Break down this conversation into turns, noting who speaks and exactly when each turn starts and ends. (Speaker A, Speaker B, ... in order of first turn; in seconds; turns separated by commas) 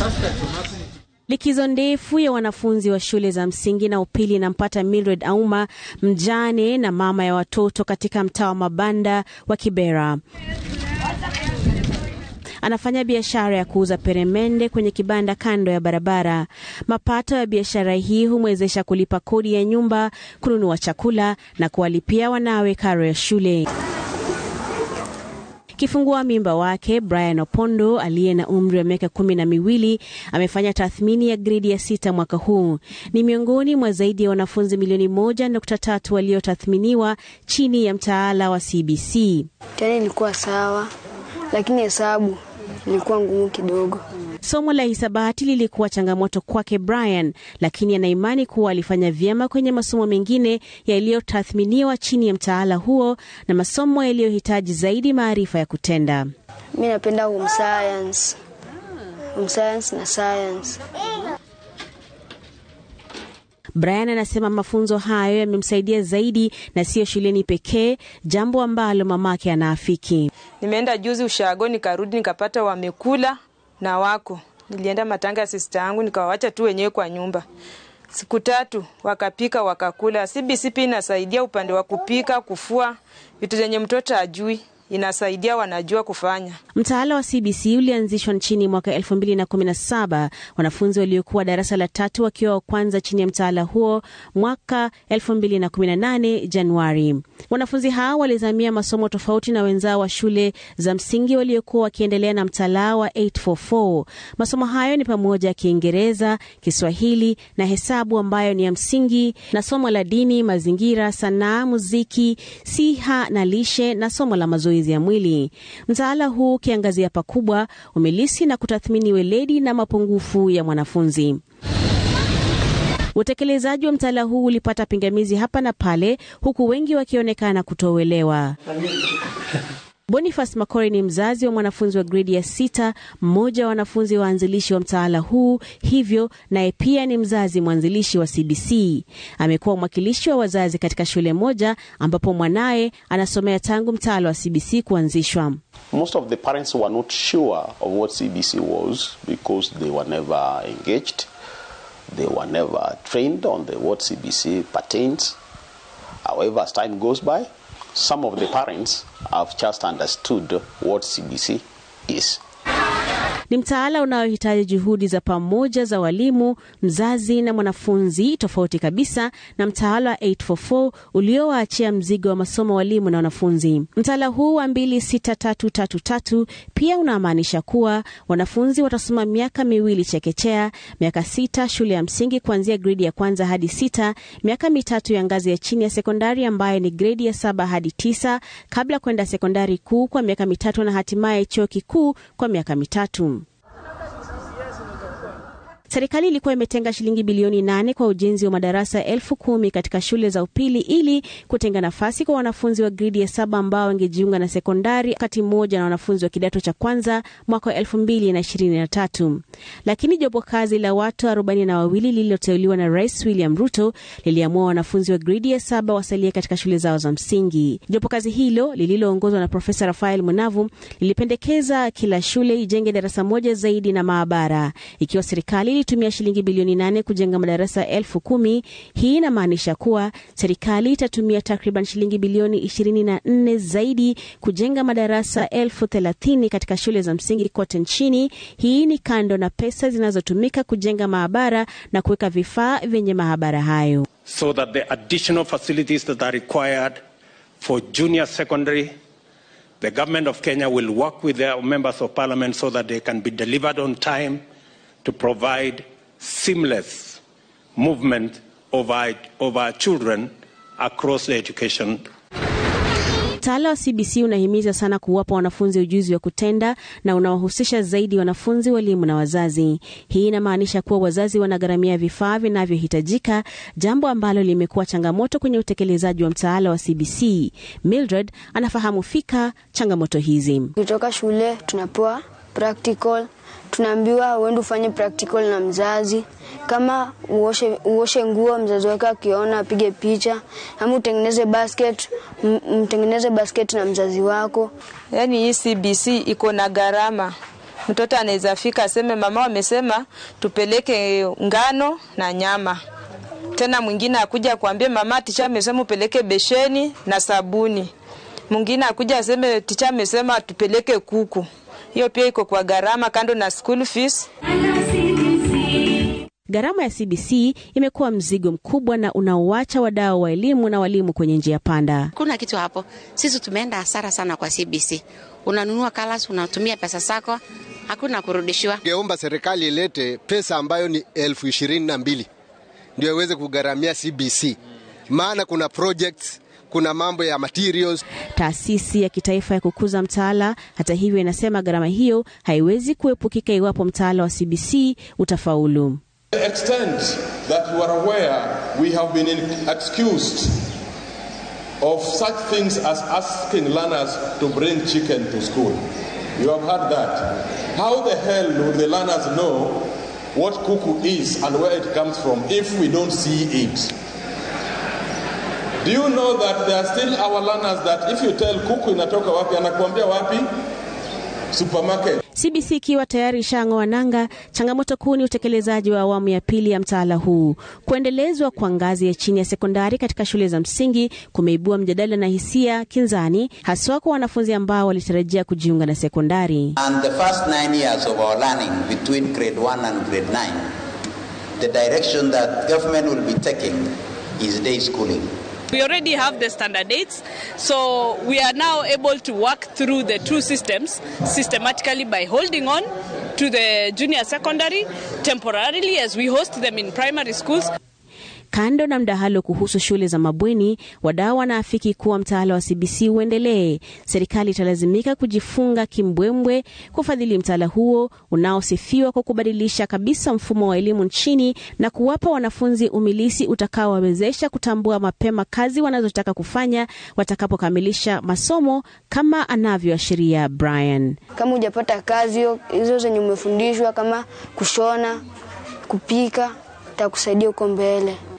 Speaker A: 1.3-10.2, Speaker A: 12.6-23.7, Speaker A: 25.8-39.5, Speaker B: 39.8-40.9, Speaker B: 41.5-44.0, Speaker A: 44.4-56.3, Speaker B: 56.7-58.3, Speaker B: 59.3-60.8, Speaker A: 63.8-70.3, Speaker C: 70.6-77.4, Speaker C: 78.1-86.6, Speaker A: 86.7-121.4, Speaker A: 123.1-128.5, Speaker A: 130.1-145.6, Speaker D: 145.9-151.3, Speaker D: 152.1-155.3, Speaker D: 156.2-162.4, Speaker A: 163.5-193.4, Speaker A: 195.9-244.0, Speaker E: 244.3-247.0, Speaker E: 247.6-248.9, Speaker E: 249.8-254.4, Speaker E: 255.0-257.2, Speaker E: 257.8-262.0, Speaker A: 263.4-280.7, Speaker B: 280.8-294.7, Speaker C: 295.1-297.3, Speaker C: 297.9-302.8, Speaker C: 303.6-307.9, Speaker C: 308.5-314.3, Speaker A: 316.5-322.1, Speaker F: 322.1-328.8, Speaker G: 328.8-332.3, Speaker G: 333.0-334.6, Speaker G: 335.1-338.0, Speaker A: 338.4-346.0, Speaker H: 346.4-350.5, Speaker H: 351.8-355.8, Speaker H: 356.4-357.2, Speaker H: 357.7-363.9, Speaker H: 365.8-370.4, Speaker H: 371.5-372.2, Speaker A: 372.4-386.7, Speaker I: 386.8-390.6, Speaker I: 391.6-395.3, Speaker J: 395.7-407.7, Speaker A: 408.5-431.2, Speaker B: 431.4-435.2, Speaker B: 435.9-438.2